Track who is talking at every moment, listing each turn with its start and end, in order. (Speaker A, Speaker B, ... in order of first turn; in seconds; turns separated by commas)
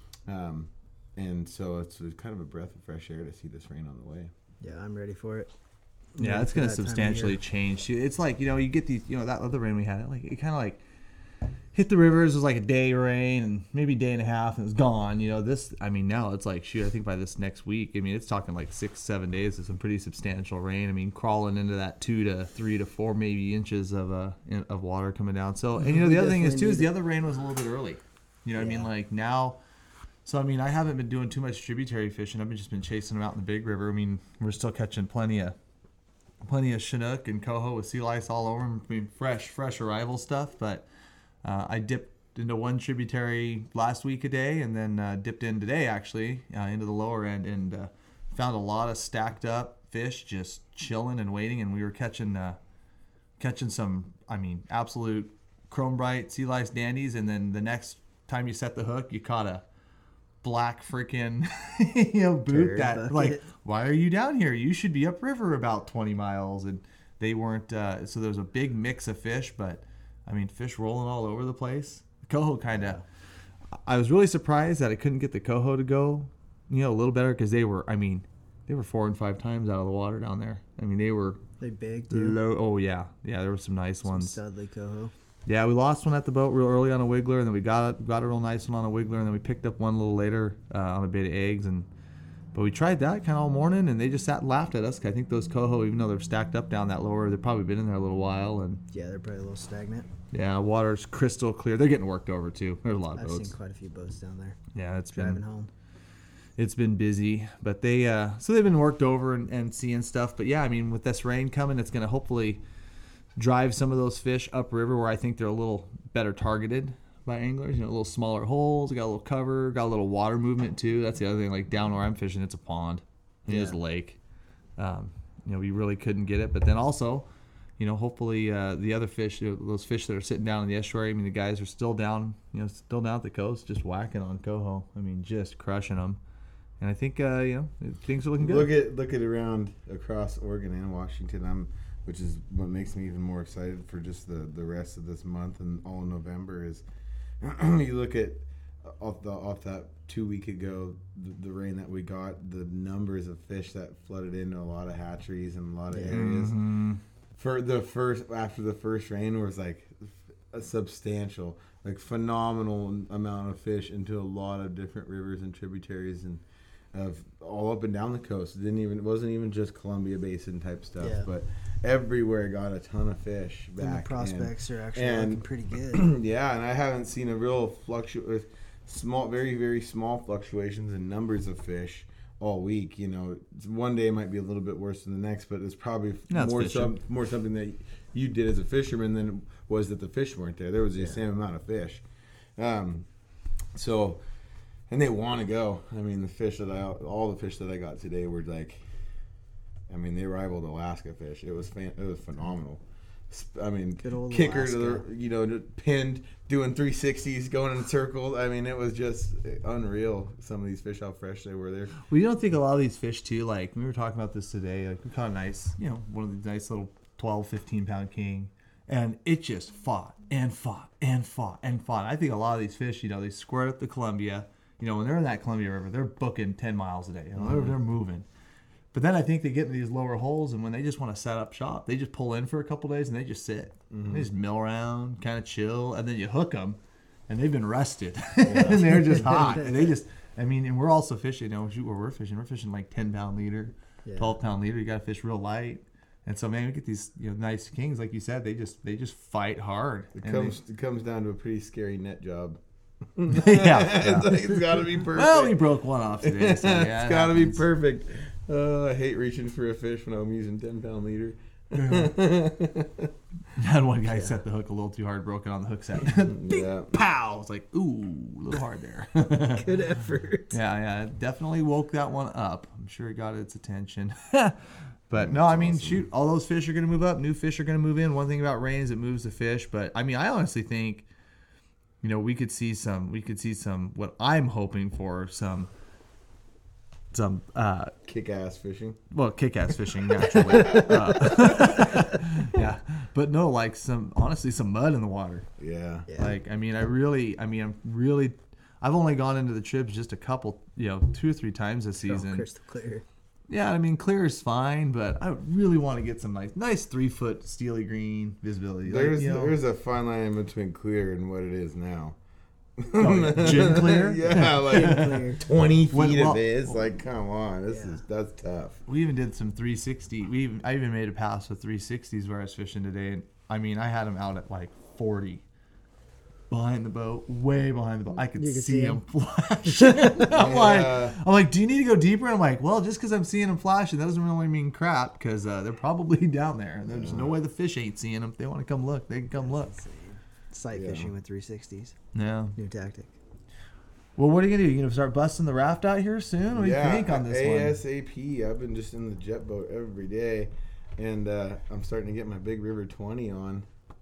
Speaker A: 0.2-4.3, Speaker B: 4.6-5.5, Speaker B: 6.2-7.4, Speaker C: 6.2-10.8, Speaker C: 11.7-29.6, Speaker B: 25.8-26.9, Speaker B: 28.6-28.9, Speaker C: 30.2-35.5, Speaker C: 36.4-40.8, Speaker C: 41.4-52.6, Speaker C: 53.4-59.6, Speaker C: 60.4-73.0, Speaker B: 62.5-63.4, Speaker B: 72.7-73.0, Speaker C: 73.8-81.4, Speaker B: 81.6-82.4, Speaker C: 82.1-84.3, Speaker B: 84.0-85.1, Speaker C: 85.5-91.9, Speaker C: 92.5-98.8, Speaker B: 98.9-100.1, Speaker C: 100.3-103.5, Speaker B: 103.2-104.6, Speaker C: 104.7-105.4, Speaker B: 105.1-105.7, Speaker C: 106.6-112.6, Speaker C: 113.3-124.2, Speaker B: 123.5-123.8, Speaker C: 124.8-127.2, Speaker C: 127.8-136.2, Speaker C: 136.8-138.7, Speaker A: 138.4-146.8, Speaker A: 147.4-156.6, Speaker B: 155.9-156.2, Speaker C: 156.1-157.0, Speaker A: 157.3-192.0, Speaker B: 171.0-171.3, Speaker B: 173.8-176.1, Speaker C: 186.3-186.9, Speaker A: 192.6-193.1, Speaker A: 193.7-194.2, Speaker A: 194.9-198.8, Speaker A: 199.9-212.0, Speaker B: 204.0-205.0, Speaker C: 212.1-228.2, Speaker A: 227.3-227.8, Speaker C: 228.9-250.6, Speaker A: 233.9-234.3, Speaker A: 238.4-239.6, Speaker B: 244.0-244.3, Speaker A: 250.2-252.6, Speaker A: 253.1-255.7, Speaker C: 253.3-257.6, Speaker A: 256.2-263.1, Speaker C: 261.8-262.1, Speaker C: 263.5-270.0, Speaker A: 266.1-266.9, Speaker B: 269.5-270.6, Speaker C: 270.5-274.6, Speaker C: 275.1-281.1, Speaker A: 275.1-276.0, Speaker C: 282.0-285.7, Speaker C: 287.1-287.9, Speaker A: 288.0-289.0, Speaker C: 289.1-295.5, Speaker A: 290.6-291.8, Speaker A: 295.6-296.1, Speaker B: 296.1-296.3, Speaker C: 296.2-302.4, Speaker B: 302.0-303.0, Speaker C: 303.5-309.6, Speaker A: 308.8-312.1, Speaker A: 312.8-318.8, Speaker C: 313.0-315.4, Speaker B: 314.6-315.4, Speaker C: 315.9-316.8, Speaker B: 317.7-318.0, Speaker C: 318.9-325.4, Speaker C: 326.5-339.7, Speaker B: 328.3-329.0, Speaker B: 329.7-330.3, Speaker A: 330.3-331.2, Speaker A: 336.8-337.4, Speaker B: 339.3-341.9, Speaker A: 340.7-341.1, Speaker C: 342.1-342.6, Speaker B: 342.5-343.1, Speaker C: 344.2-347.8, Speaker A: 346.5-353.6